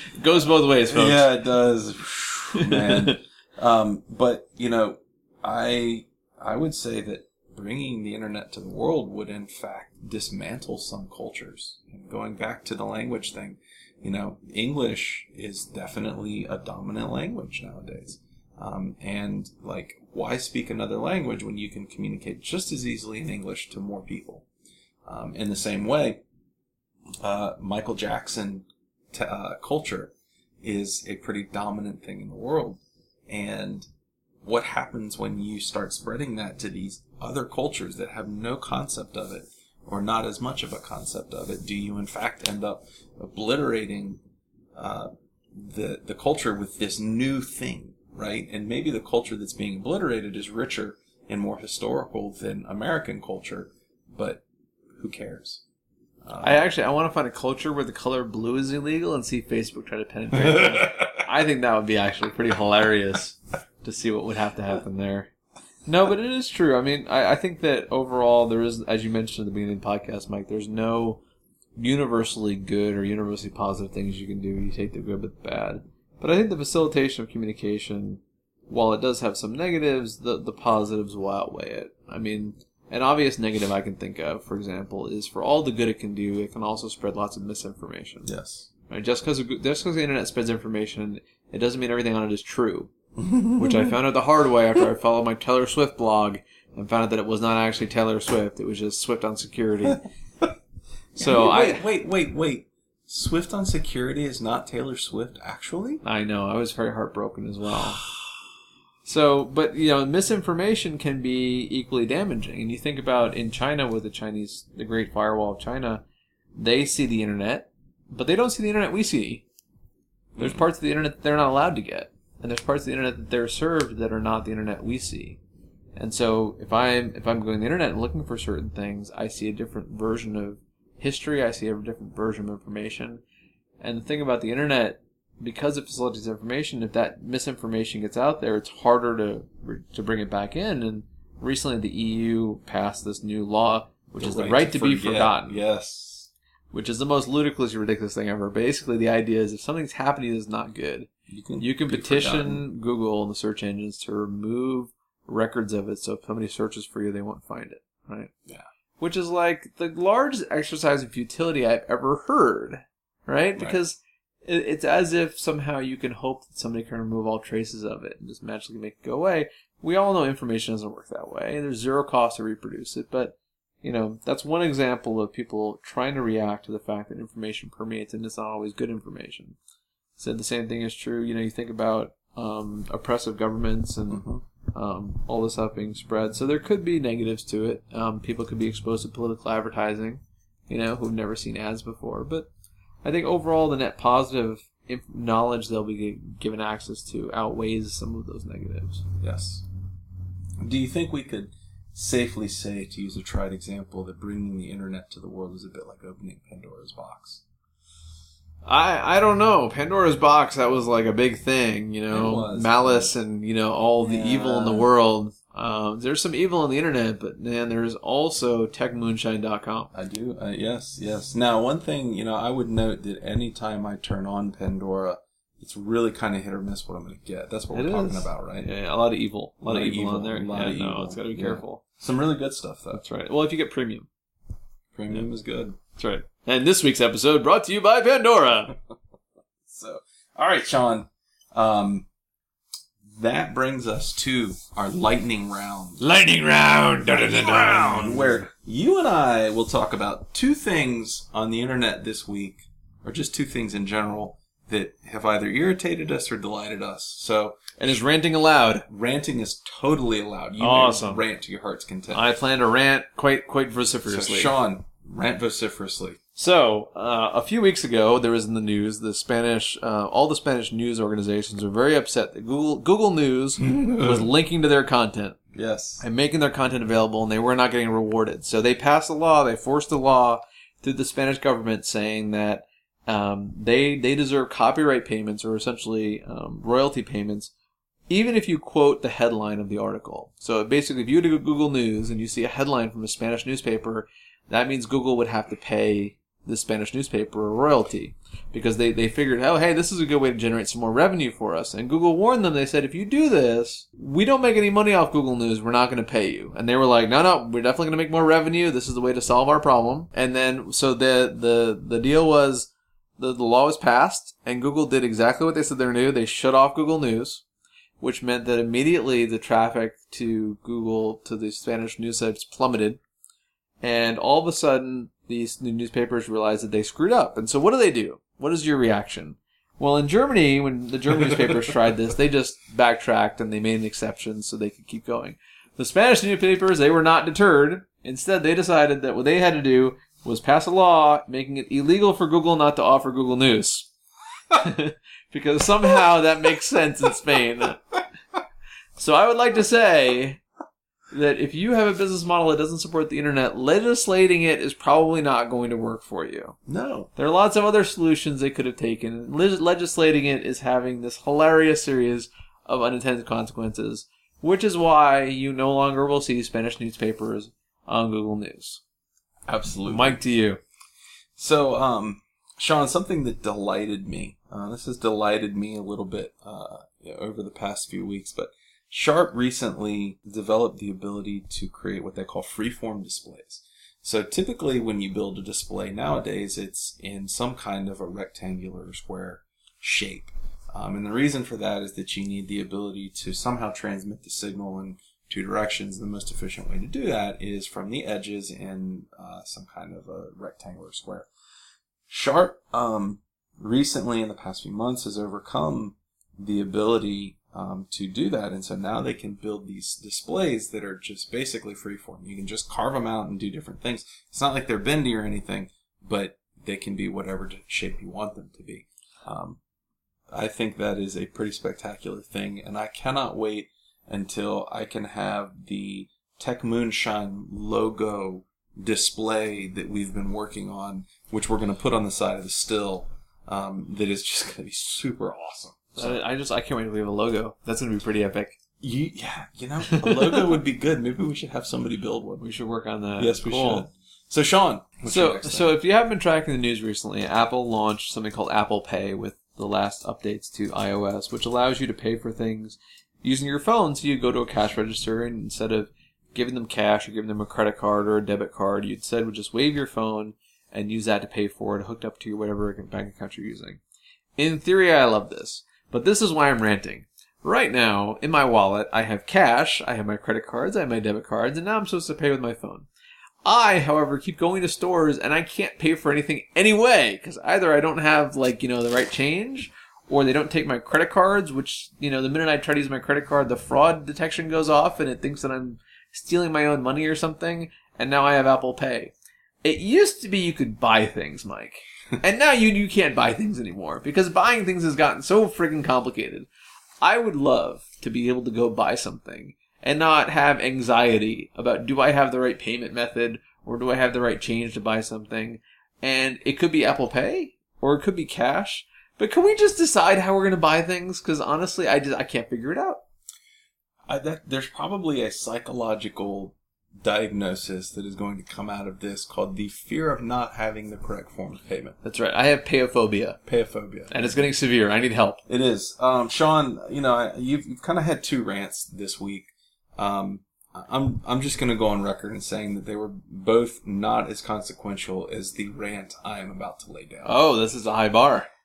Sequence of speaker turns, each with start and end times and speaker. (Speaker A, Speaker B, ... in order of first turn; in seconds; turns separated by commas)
Speaker A: 0.1-1.2, Speaker B: 0.9-24.4, Speaker A: 2.6-3.1, Speaker B: 25.1-26.2, Speaker B: 27.2-33.9, Speaker B: 34.4-44.2, Speaker B: 44.7-54.4, Speaker B: 55.0-55.6, Speaker B: 56.2-56.6, Speaker A: 56.4-65.3, Speaker B: 60.4-61.2, Speaker A: 65.8-71.2, Speaker A: 71.8-88.3, Speaker B: 88.2-88.7, Speaker A: 88.9-92.9, Speaker B: 93.2-94.0, Speaker A: 93.6-100.0, Speaker B: 99.8-100.5, Speaker B: 101.1-106.0, Speaker A: 101.2-101.8, Speaker A: 106.0-108.0, Speaker A: 109.0-116.0, Speaker A: 116.5-119.4, Speaker B: 120.3-120.6, Speaker A: 120.4-125.4, Speaker A: 126.0-133.2, Speaker A: 133.8-145.6, Speaker B: 144.1-146.3, Speaker A: 146.7-151.1, Speaker B: 151.3-152.6, Speaker A: 151.6-158.3, Speaker A: 159.0-179.6, Speaker A: 180.2-192.5, Speaker B: 184.1-184.4, Speaker A: 193.0-199.0, Speaker B: 199.2-199.6, Speaker B: 200.6-207.4, Speaker A: 208.6-219.9, Speaker B: 212.1-213.2, Speaker B: 214.0-214.9, Speaker B: 219.9-228.7, Speaker A: 227.7-231.8, Speaker B: 229.6-233.0, Speaker A: 232.9-234.1, Speaker B: 234.9-235.8, Speaker A: 236.0-238.7, Speaker B: 239.7-242.1, Speaker B: 243.1-246.0, Speaker A: 246.0-248.4, Speaker B: 247.1-258.0, Speaker A: 257.8-258.9, Speaker B: 258.9-262.2, Speaker A: 260.6-261.2, Speaker A: 262.1-264.5, Speaker B: 264.1-266.2, Speaker A: 266.4-275.4, Speaker B: 273.6-274.3, Speaker B: 275.5-276.0, Speaker A: 276.0-287.5, Speaker A: 288.1-317.4, Speaker A: 318.0-323.0, Speaker A: 323.8-343.9, Speaker B: 331.2-331.5, Speaker A: 344.5-347.8, Speaker A: 349.0-350.4, Speaker A: 351.1-356.6, Speaker B: 356.6-357.1, Speaker A: 357.1-368.8, Speaker B: 369.5-370.2, Speaker A: 369.9-370.6, Speaker B: 371.4-401.3, Speaker B: 402.1-419.6, Speaker B: 420.3-436.2, Speaker A: 436.0-438.6, Speaker B: 438.8-442.4, Speaker A: 439.9-440.4, Speaker A: 442.4-443.9, Speaker B: 443.2-445.8, Speaker A: 445.1-463.8, Speaker A: 464.4-472.9, Speaker A: 473.4-489.1, Speaker A: 489.6-496.5, Speaker A: 497.0-513.0, Speaker B: 514.1-522.0, Speaker A: 522.0-523.4, Speaker B: 523.4-524.4, Speaker A: 524.1-525.4, Speaker B: 525.5-537.5, Speaker A: 537.2-538.5